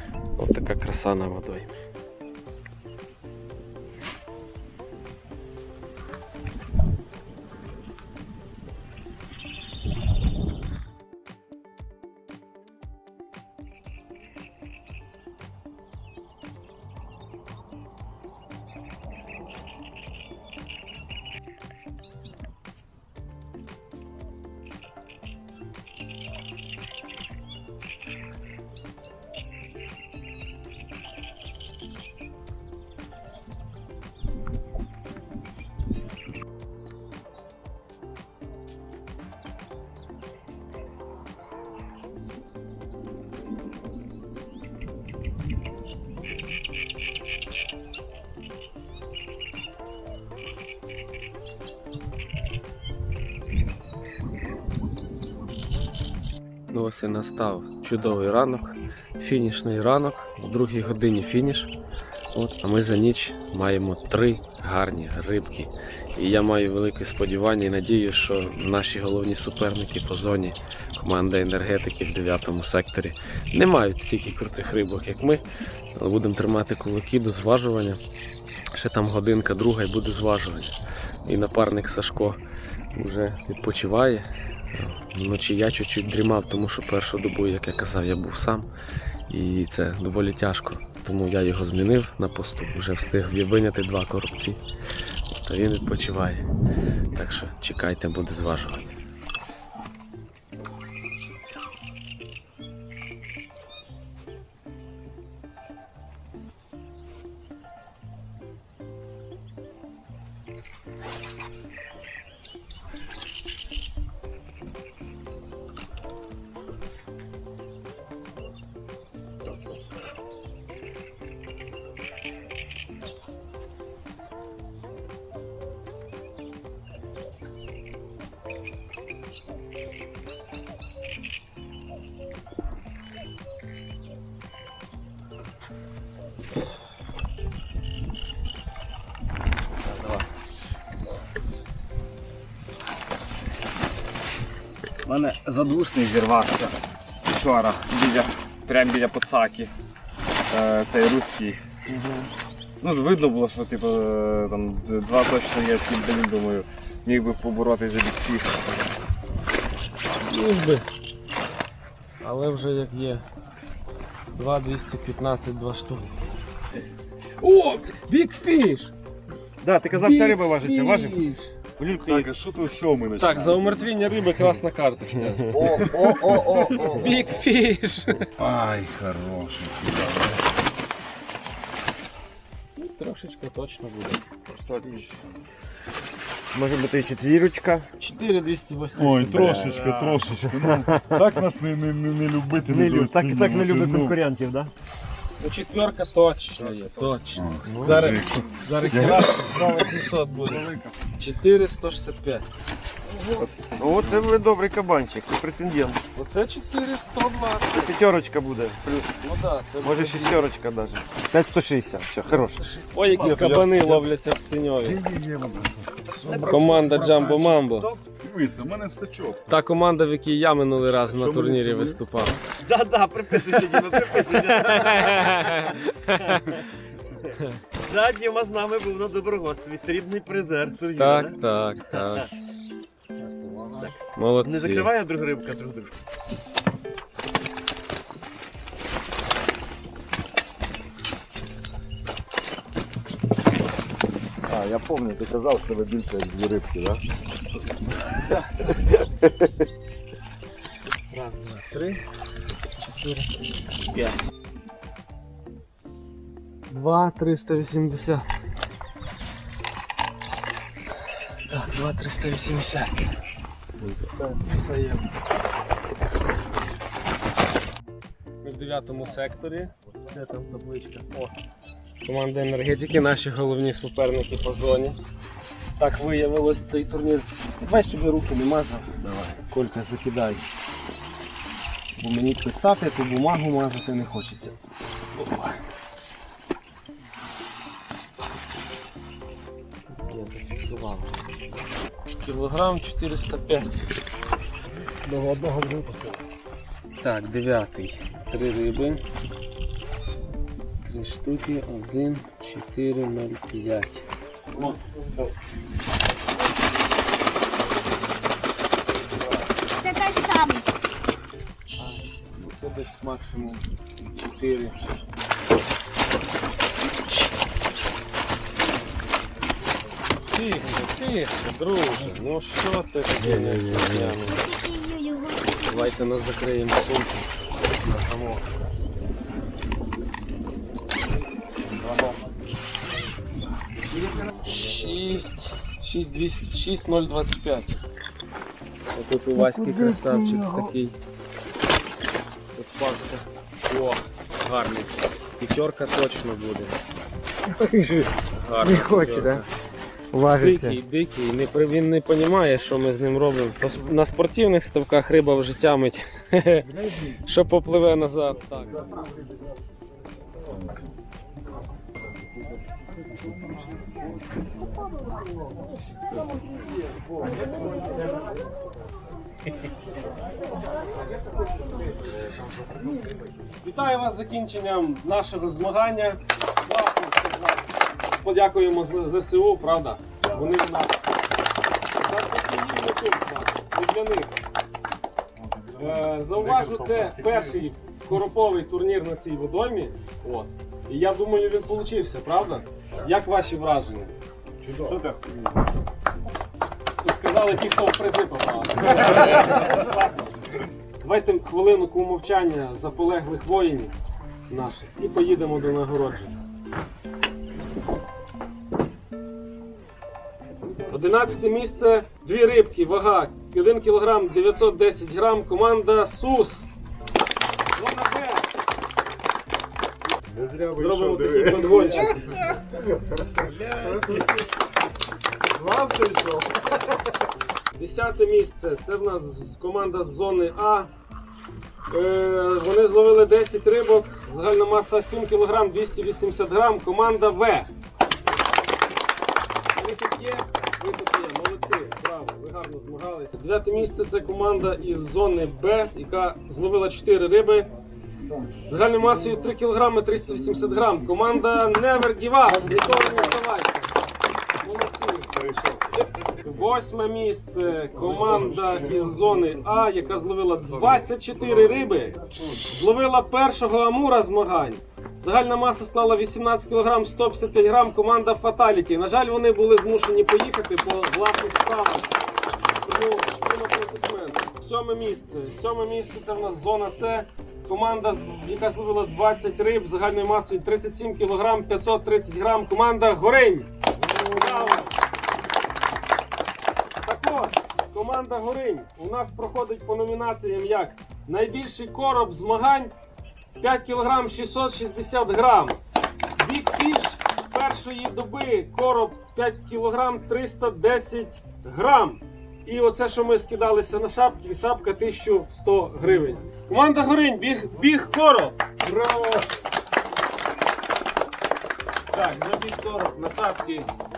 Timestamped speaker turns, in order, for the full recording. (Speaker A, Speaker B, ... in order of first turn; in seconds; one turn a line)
Speaker A: 0.4-1.7
Speaker A: 56.7-61.7
Speaker A: 62.3-75.4
Speaker A: 75.9-78.0
Speaker A: 78.7-80.7
Speaker A: 81.2-82.4
Speaker A: 82.9-88.7
Speaker A: 89.3-94.6
Speaker A: 95.4-96.5
Speaker A: 97.1-98.9
Speaker B: 139.8-140.2
Speaker B: 145.0-149.7
Speaker B: 150.5-151.6
Speaker A: 151.9-152.3
Speaker B: 152.8-158.7
Speaker A: 160.2-160.9
Speaker A: 162.2-163.2
Speaker A: 164.3-166.2
Speaker A: 167.4-168.9
Speaker B: 169.6-171.2
Speaker A: 169.9-171.5
Speaker B: 171.8-172.3
Speaker C: 172.1-173.8
Speaker A: 173.2-178.3
Speaker B: 175.5-177.1
Speaker C: 175.6-177.2
Speaker C: 178.4-180.3
Speaker A: 182.8-184.2
Speaker B: 184.5-185.2
Speaker B: 186.5-187.9
Speaker A: 188.0-189.8
Speaker C: 188.9-194.2
Speaker B: 189.3-191.2
Speaker B: 192.7-194.7
Speaker A: 195.4-202.4
Speaker C: 197.3-199.5
Speaker B: 197.8-198.2
Speaker B: 200.4-200.9
Speaker B: 203.4-206.0
Speaker A: 206.1-207.9
Speaker B: 207.7-209.0
Speaker A: 208.9-210.4
Speaker B: 209.8-212.6
Speaker A: 212.3-215.0
Speaker C: 213.0-214.1
Speaker B: 213.2-213.5
Speaker C: 214.8-217.4
Speaker B: 216.2-218.0
Speaker A: 216.3-217.9
Speaker C: 218.2-219.6
Speaker A: 219.5-222.4
Speaker C: 220.8-222.0
Speaker B: 222.6-231.3
Speaker A: 224.5-226.6
Speaker A: 231.0-232.3
Speaker B: 231.9-232.2
Speaker B: 233.7-235.9
Speaker A: 234.1-234.9
Speaker B: 244.5-247.0
Speaker C: 244.5-244.9
Speaker A: 251.1-252.0
Speaker A: 253.0-253.4
Speaker A: 256.7-258.3
Speaker A: 261.5-263.1
Speaker A: 264.3-265.1
Speaker A: 268.4-271.4
Speaker A: 272.0-275.0
Speaker A: 275.8-280.4
Speaker B: 279.0-279.3
Speaker A: 281.9-284.5
Speaker A: 285.1-285.6
Speaker A: 289.9-291.1
Speaker A: 292.2-293.8
Speaker A: 297.0-299.0
Speaker A: 300.8-304.1
Speaker D: 309.8-310.7
Speaker A: 311.8-314.9
Speaker A: 320.2-324.5
Speaker D: 324.4-325.6
Speaker A: 325.6-328.5
Speaker A: 331.7-332.1
Speaker A: 334.3-337.8
Speaker A: 338.9-340.9
Speaker C: 339.4-340.7
Speaker A: 342.5-346.8
Speaker B: 347.6-348.0
Speaker A: 348.1-349.5
Speaker B: 348.7-349.4
Speaker B: 350.1-350.6
Speaker A: 350.3-359.0
Speaker A: 373.6-381.0
Speaker C: 380.2-380.6
Speaker A: 381.9-384.4
Speaker C: 385.3-387.6
Speaker A: 385.8-394.1
Speaker C: 394.6-395.0
Speaker B: 394.9-395.2
Speaker A: 397.0-400.4
Speaker A: 401.0-403.9
Speaker A: 404.5-406.3
Speaker A: 410.8-416.6
Speaker A: 417.7-418.5
Speaker C: 420.2-422.3
Speaker A: 420.8-422.4
Speaker C: 423.3-424.2
Speaker C: 425.5-426.6
Speaker A: 427.7-430.9
Speaker A: 431.9-437.7
Speaker A: 439.7-447.7
Speaker A: 448.6-453.9
Speaker A: 454.6-455.3
Speaker C: 455.3-456.0
Speaker A: 455.9-472.1
Speaker A: 472.8-484.9
Speaker A: 487.0-492.9
Speaker A: 493.6-495.8
Speaker A: 496.4-509.4
Speaker C: 508.9-509.2
Speaker A: 512.1-513.9